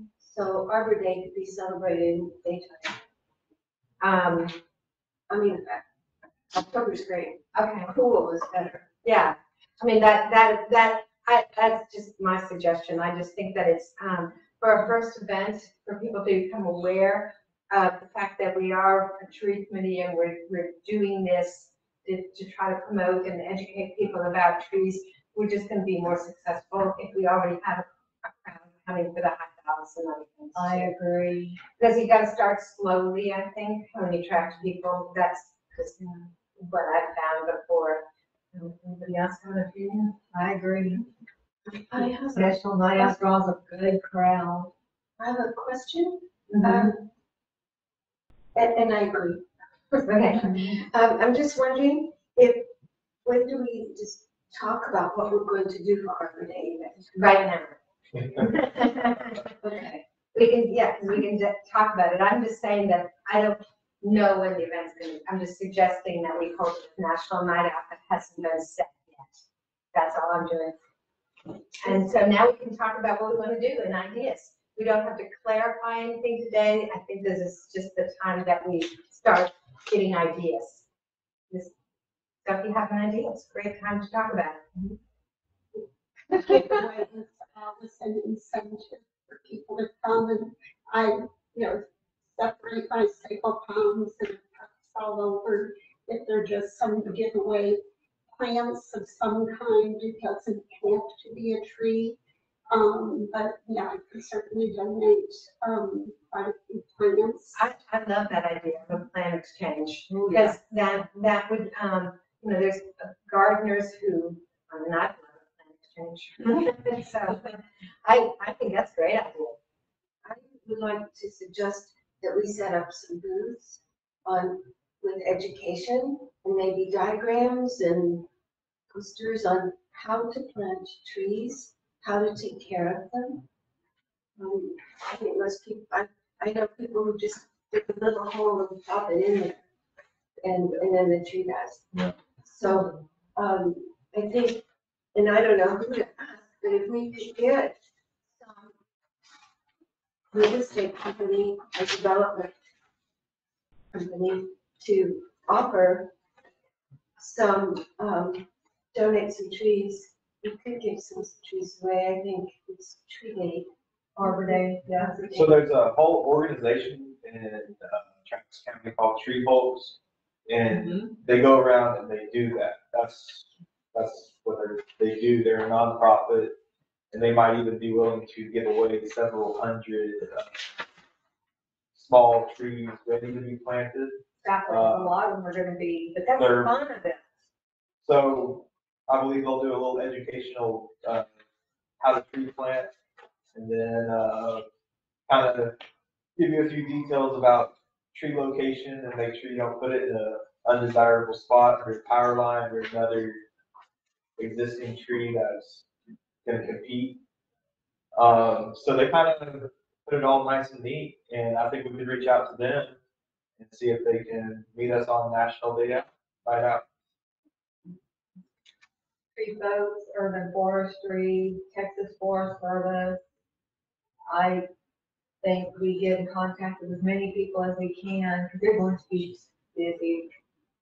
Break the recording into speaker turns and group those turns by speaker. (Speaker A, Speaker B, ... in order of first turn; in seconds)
Speaker A: 0.2-3.0, 5.3-5.8, 6.5-8.8, 41.7-43.1, 45.2-47.0, 48.5-49.5, 50.5-52.7, 53.2-57.2, 59.5-60.0, 120.2-128.3, 128.9-133.4, 134.4-139.6, 140.4-147.8, 148.4-148.7, 150.3-152.5, 153.9-156.1, 157.2-163.7, 164.2-165.6
Speaker B: 4.0-4.6, 7.5-7.9, 9.0-30.9, 31.8-40.2, 42.4-43.2, 50.0-50.5, 57.1-59.4, 60.3-69.4, 69.9-70.8, 71.8-80.8, 82.5-84.6, 86.3-86.7, 107.5-119.6, 186.2-186.5
Speaker C: 30.6-31.6, 40.3-41.0, 42.9-44.7, 110.1-110.6, 164.2-165.2, 170.7-171.1, 184.4-187.0, 219.4-223.2, 224.3-224.7, 225.4-230.3
Speaker D: 86.3-97.8, 98.4-102.2, 102.7-107.6
Speaker E: 165.3-176.6, 177.1-180.7, 181.9-185.2, 186.3-186.8, 188.0-191.3, 192.0-192.9, 193.5-194.6, 195.3-195.8, 196.4-203.4, 204.4-205.9, 206.4-207.2, 208.1-213.0, 213.6-216.8